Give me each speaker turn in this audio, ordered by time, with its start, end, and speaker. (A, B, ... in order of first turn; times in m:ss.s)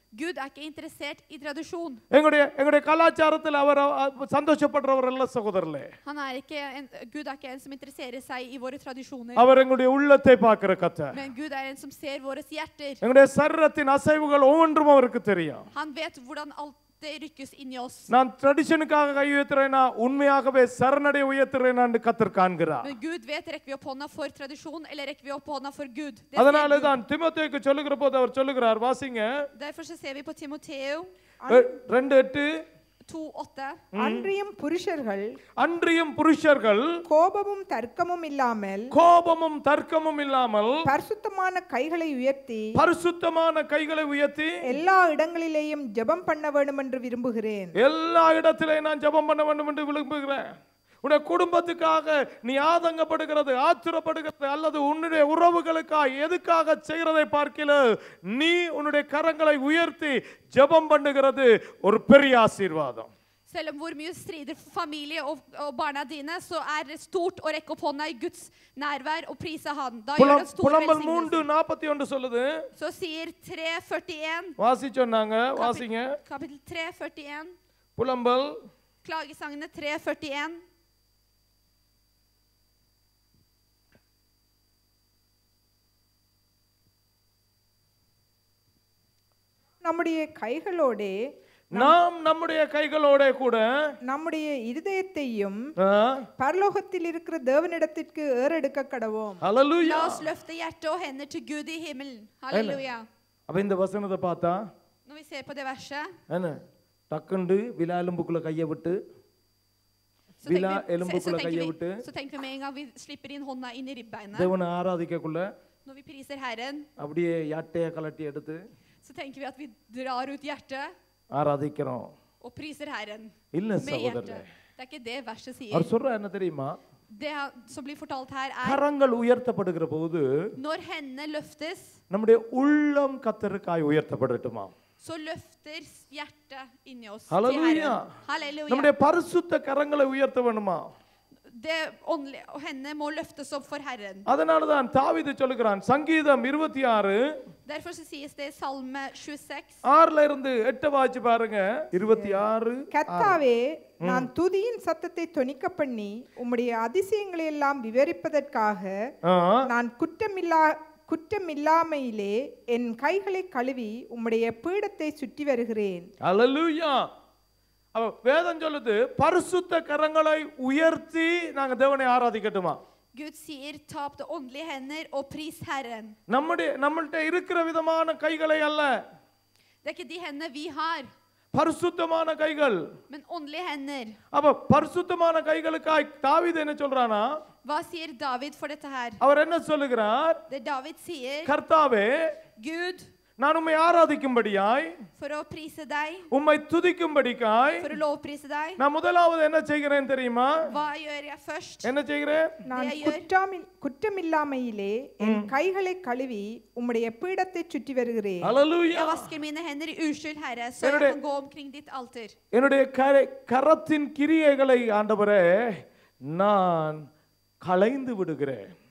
0:00.2-0:02.0 A
0:02.1-0:05.9 B
0:06.0-0:09.4 A
0:09.4-0:11.2 B
0:11.1-0:13.0 A
0:13.0-0:15.7 B
0:15.7-0:18.1 A
0:18.1-0:22.9 B
0:22.8-0:27.0 A
0:26.4-0:29.5 B
0:29.6-0:31.1 A
0:31.4-0:31.7 C
0:31.5-0:32.6 B
0:33.1-0:33.9 A
0:33.9-0:34.3 B
0:34.0-0:35.3 C
0:35.6-0:37.0 B
0:37.1-0:38.9 C
0:38.9-0:40.9 B
0:40.8-0:42.8 C
0:42.7-0:44.8 B
0:44.6-0:47.8 C
0:47.8-0:50.5 B
0:51.0-1:03.1 B
1:03.5-1:11.5 A
1:10.2-1:12.7 B
1:12.8-1:14.6 A
1:14.6-1:16.2 B
1:15.6-1:17.6 A
1:18.0-1:18.6 B
1:19.0-1:20.6 A
1:29.8-1:31.2 C
1:31.7-1:33.7 B
1:34.1-1:35.6 C
1:35.8-1:36.3 B
1:36.4-1:39.4 C
1:39.4-1:40.3 B
1:39.8-1:43.0 A
1:42.5-1:42.8 B
1:43.5-1:44.6 B
1:45.1-1:46.2 A
1:46.3-1:49.0 B
1:50.4-1:52.0 B
1:50.4-1:54.5 A
1:54.4-1:55.5 B
1:55.8-1:56.9 A
1:57.0-1:58.6 B
1:59.0-2:00.9 A
2:01.3-2:02.1 B
2:02.4-2:05.9 A
2:03.5-2:04.4 B
2:05.7-2:06.8 B
2:07.1-2:08.8 A
2:08.6-2:10.5 B
2:10.6-2:12.0 A
2:12.1-2:14.7 B
2:15.0-2:18.9 A
2:17.3-2:18.1 B
2:18.7-2:20.9 B
2:21.5-2:24.3 A
2:24.3-2:27.2 B
2:27.7-2:29.8 A
2:29.9-2:33.4 B
2:32.1-2:32.4 C
2:32.9-2:39.0 C
2:34.0-2:34.3 B
2:39.2-2:39.7 B
2:39.7-2:46.1 C
2:46.2-2:47.1 B
2:47.9-2:52.8 B
2:53.2-2:56.2 A
2:56.3-2:59.0 B
2:59.8-3:01.1 A
3:01.5-3:02.8 B
3:03.1-3:04.2 A
3:04.3-3:07.4 B
3:07.6-3:09.2 A
3:09.2-3:10.4 B
3:10.5-3:11.5 A
3:11.4-3:12.4 B
3:12.6-3:13.1 A
3:13.4-3:15.0 B
3:15.2-3:16.3 A
3:16.3-3:17.9 B
3:17.8-3:18.8 A
3:18.8-3:20.7 B
3:20.6-3:21.9 A
3:21.8-3:22.6 B
3:22.7-3:28.6 C
3:22.7-3:23.2 A
3:25.2-3:25.5 B
3:28.4-3:29.3 B
3:28.9-3:32.4 A
3:30.8-3:31.2 B
3:32.5-3:37.1 B
3:37.6-3:38.7 B